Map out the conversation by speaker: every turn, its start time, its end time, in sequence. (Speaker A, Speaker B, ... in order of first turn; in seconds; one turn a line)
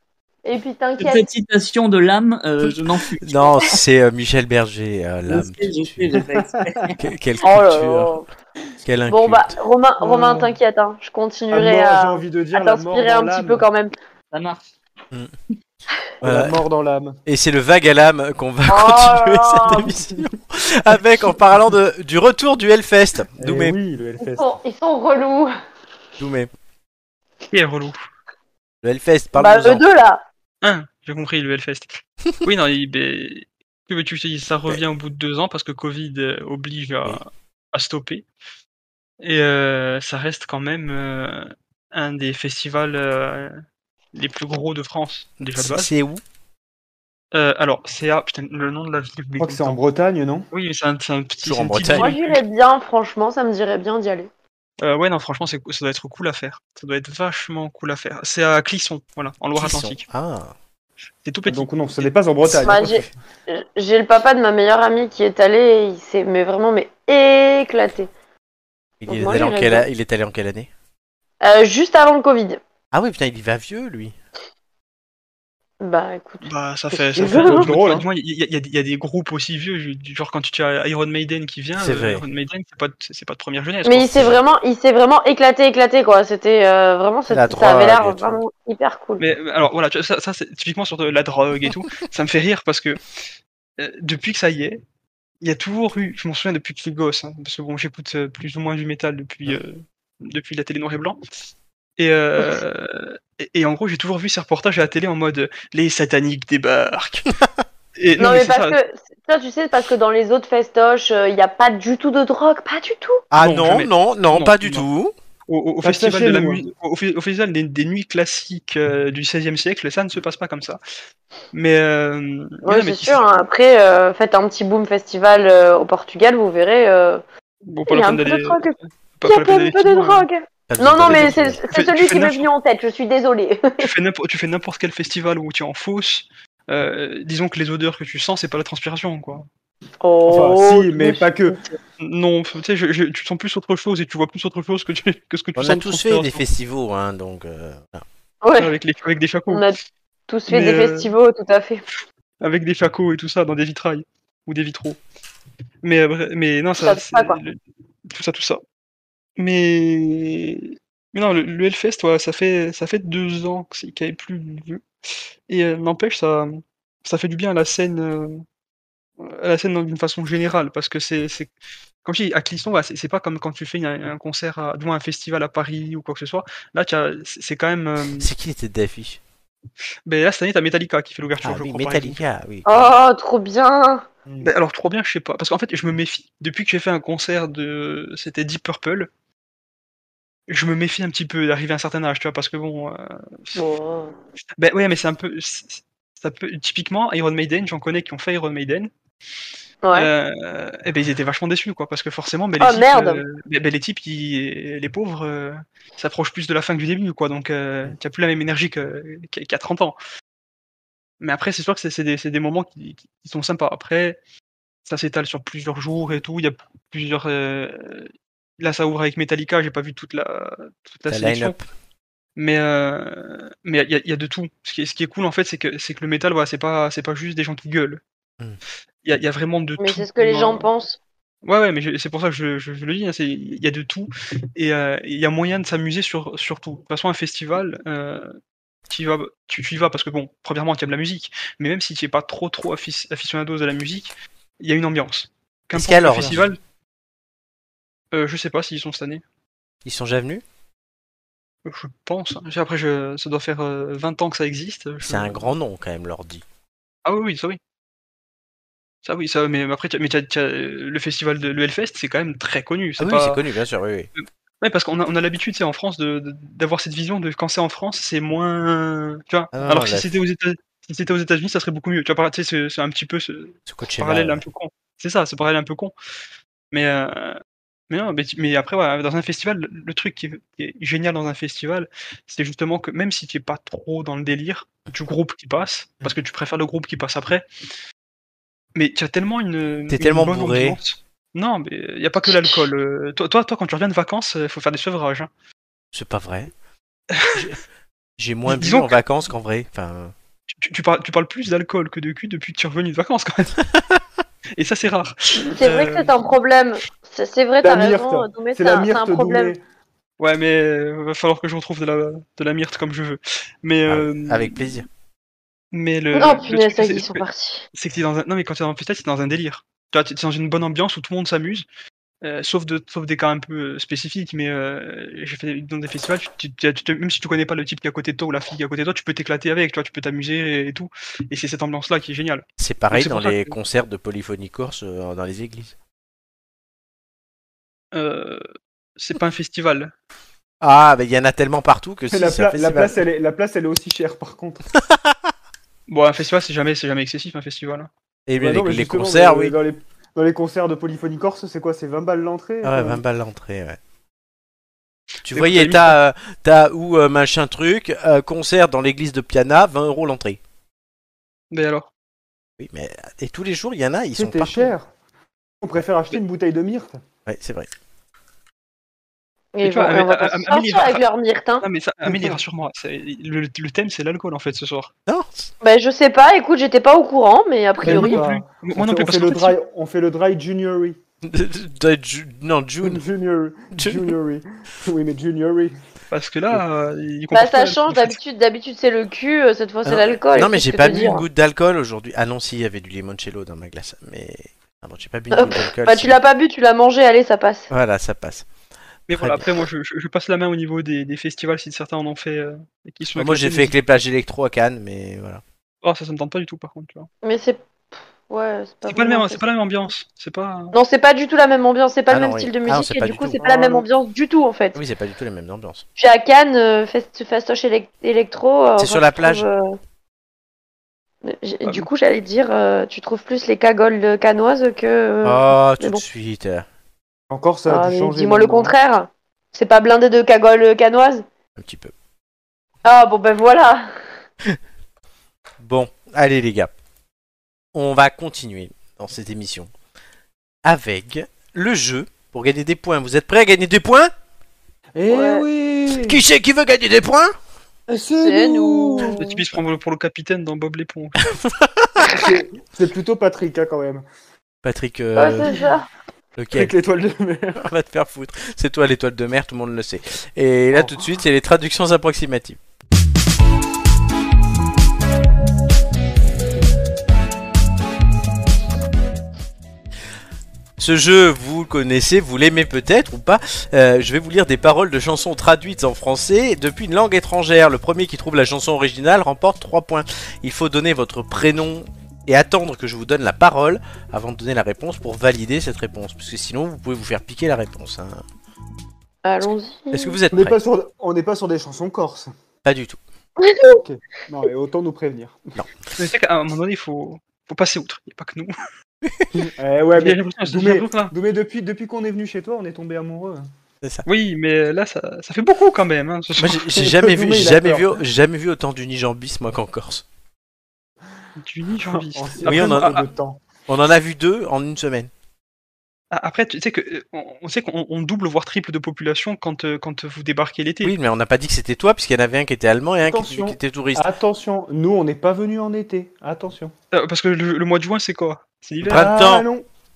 Speaker A: 0.4-1.2
Speaker B: 1.0-3.7
Speaker C: 3.2-6.0
Speaker B: 5.3-7.0
Speaker C: 7.0-8.1
Speaker A: 7.4-8.3
Speaker C: 8.8-9.5
Speaker A: 9.1-13.9
Speaker D: 10.0-10.5
Speaker D: 11.5-13.6
Speaker B: 14.3-14.7
Speaker C: 16.2-16.6
Speaker D: 16.2-17.2
Speaker C: 17.2-23.8
Speaker A: 18.7-19.9
Speaker D: 23.4-24.6
Speaker A: 24.2-25.5
Speaker C: 26.2-26.5
Speaker E: 27.5-28.0
Speaker C: 28.8-29.8
Speaker A: 29.3-30.2
Speaker E: 30.6-38.2
Speaker E: 39.2-43.6
Speaker E: 44.1-45.9
Speaker C: 45.5-46.2
Speaker E: 47.3-49.8
Speaker D: 49.4-50.5
Speaker E: 50.5-52.4
Speaker C: 51.4-52.1
Speaker A: 51.9-54.3
Speaker E: 54.8-60.0
Speaker C: 59.5-60.5
Speaker E: 61.2-62.7
Speaker D: 61.5-63.1
Speaker A: 62.6-68.1
Speaker C: 69.0-70.7
Speaker A: 69.1-69.8
Speaker A: 71.4-72.6
Speaker C: 72.9-74.1
Speaker A: 75.8-76.5
Speaker E: 76.4-84.1
Speaker A: 77.1-77.6
Speaker D: 77.1-78.1
Speaker C: 81.8-82.2
Speaker A: 83.8-89.2
Speaker C: 84.1-84.4
Speaker C: 87.3-88.4
Speaker E: 89.2-93.0
Speaker E: 93.8-94.8
Speaker E: 95.4-101.2
Speaker E: 102.0-107.3
Speaker E: 108.0-108.8
Speaker A: 108.2-113.2
Speaker C: 113.3-115.1
Speaker E: 113.4-114.8
Speaker E: 115.5-120.8
Speaker D: 115.8-116.6
Speaker E: 121.5-123.2
Speaker A: 122.6-127.2
Speaker E: 127.7-128.6
Speaker A: 127.9-133.9
Speaker E: 129.2-130.2
Speaker C: 130.7-131.6
Speaker E: 131.1-132.5
Speaker E: 133.8-139.5
Speaker A: 140.0-141.7
Speaker D: 140.3-141.6
Speaker E: 142.0-146.4
Speaker C: 145.6-148.0
Speaker A: 148.4-148.7
Speaker E: 148.6-149.7
Speaker A: 149.5-149.8
Speaker A: 150.3-151.8
Speaker E: 150.5-151.1
Speaker E: 152.4-155.0
Speaker E: 155.8-157.6
Speaker A: 156.8-157.4
Speaker E: 158.1-158.6
Speaker E: 159.4-164.8
Speaker E: 165.5-168.4
Speaker E: 169.2-171.5
Speaker E: 172.0-178.3
Speaker C: 178.2-179.2
Speaker E: 180.1-182.2
Speaker C: 181.4-182.9
Speaker A: 182.7-184.0
Speaker D: 184.2-184.5
Speaker E: 184.4-189.1
Speaker E: 190.5-193.6
Speaker A: 193.6-194.1
Speaker E: 194.6-198.9
Speaker A: 199.8-200.1
Speaker E: 199.9-209.9
Speaker A: 202.6-203.2
Speaker E: 211.2-214.2
Speaker E: 214.8-221.6
Speaker C: 221.1-221.6
Speaker E: 222.3-228.0
Speaker E: 229.0-230.7
Speaker A: 229.8-231.0
Speaker E: 231.4-238.4
Speaker E: 238.9-246.6
Speaker C: 245.7-246.5
Speaker E: 248.1-249.2
Speaker C: 249.8-250.4
Speaker E: 251.6-255.4
Speaker C: 255.0-256.4
Speaker E: 257.0-257.6
Speaker E: 259.0-263.4
Speaker C: 263.0-264.1
Speaker E: 264.2-275.9
Speaker C: 269.5-270.2
Speaker C: 273.7-274.4
Speaker E: 276.7-287.4
Speaker E: 288.7-295.3
Speaker C: 289.9-290.8
Speaker C: 295.9-296.5
Speaker E: 297.1-297.5
Speaker C: 297.3-297.6
Speaker C: 298.2-300.1
Speaker E: 298.5-299.0
Speaker E: 300.5-303.6
Speaker E: 304.6-306.1
Speaker A: 305.4-309.5
Speaker D: 307.6-309.6
Speaker E: 310.2-314.8
Speaker C: 313.9-314.9
Speaker E: 315.7-321.6
Speaker A: 316.1-317.7
Speaker E: 322.2-333.5
Speaker C: 332.6-335.7
Speaker E: 337.9-338.4
Speaker E: 339.0-339.9
Speaker C: 340.6-343.0
Speaker D: 342.1-344.6
Speaker C: 344.8-345.2
Speaker E: 345.9-347.9
Speaker C: 348.3-349.6
Speaker D: 348.4-353.0
Speaker C: 352.6-353.8
Speaker C: 355.2-360.4
Speaker E: 355.3-356.0
Speaker E: 361.5-361.9
Speaker C: 362.6-364.7
Speaker D: 364.1-364.9
Speaker D: 365.6-367.0
Speaker C: 367.2-367.7
Speaker A: 369.5-371.6
Speaker E: 369.6-371.0
Speaker E: 371.6-374.9
Speaker D: 372.0-372.4
Speaker C: 375.1-375.5
Speaker A: 375.6-378.2
Speaker D: 377.8-381.0
Speaker E: 377.8-379.5
Speaker C: 381.2-383.0
Speaker D: 382.8-385.7
Speaker C: 383.7-384.1
Speaker E: 386.1-388.2
Speaker A: 387.3-391.2
Speaker C: 389.8-396.2
Speaker A: 395.3-397.7
Speaker C: 397.7-398.4
Speaker E: 399.1-403.7
Speaker C: 399.1-399.5
Speaker C: 403.1-405.4
Speaker E: 405.8-407.1
Speaker A: 407.2-407.6
Speaker A: 408.3-409.4
Speaker E: 408.9-410.7
Speaker A: 410.7-414.8
Speaker C: 412.1-413.4
Speaker D: 413.4-413.7
Speaker C: 414.7-415.8
Speaker A: 416.0-419.8
Speaker C: 418.8-419.5
Speaker A: 421.2-426.0
Speaker C: 425.2-426.6
Speaker D: 427.3-428.7
Speaker A: 427.7-431.2
Speaker C: 431.6-431.9
Speaker A: 432.8-433.9
Speaker C: 435.6-436.7
Speaker C: 437.7-439.7
Speaker C: 440.6-444.1
Speaker D: 444.9-446.2
Speaker A: 445.1-445.4
Speaker C: 445.9-447.4
Speaker D: 447.9-449.2
Speaker A: 448.2-449.4
Speaker E: 449.1-451.3
Speaker C: 451.3-452.2
Speaker D: 452.1-454.0
Speaker C: 454.6-455.5
Speaker A: 455.1-455.9
Speaker C: 456.4-456.7
Speaker D: 456.5-457.6
Speaker C: 457.6-462.6
Speaker D: 460.7-461.0
Speaker C: 470.8-488.2
Speaker A: 489.2-490.2
Speaker C: 489.9-490.6
Speaker D: 490.3-492.3
Speaker C: 492.6-493.0
Speaker A: 493.4-493.8
Speaker D: 493.7-495.4
Speaker E: 496.0-498.5
Speaker D: 499.3-503.5
Speaker E: 499.9-501.1
Speaker E: 504.1-506.7
Speaker C: 506.4-510.0
Speaker D: 506.7-508.0
Speaker E: 511.4-513.1
Speaker D: 511.9-513.4
Speaker C: 512.4-513.0
Speaker C: 513.7-515.1
Speaker E: 516.1-520.9
Speaker C: 520.8-524.1
Speaker D: 523.0-526.7
Speaker E: 526.9-529.1
Speaker C: 528.8-529.5
Speaker D: 528.9-529.6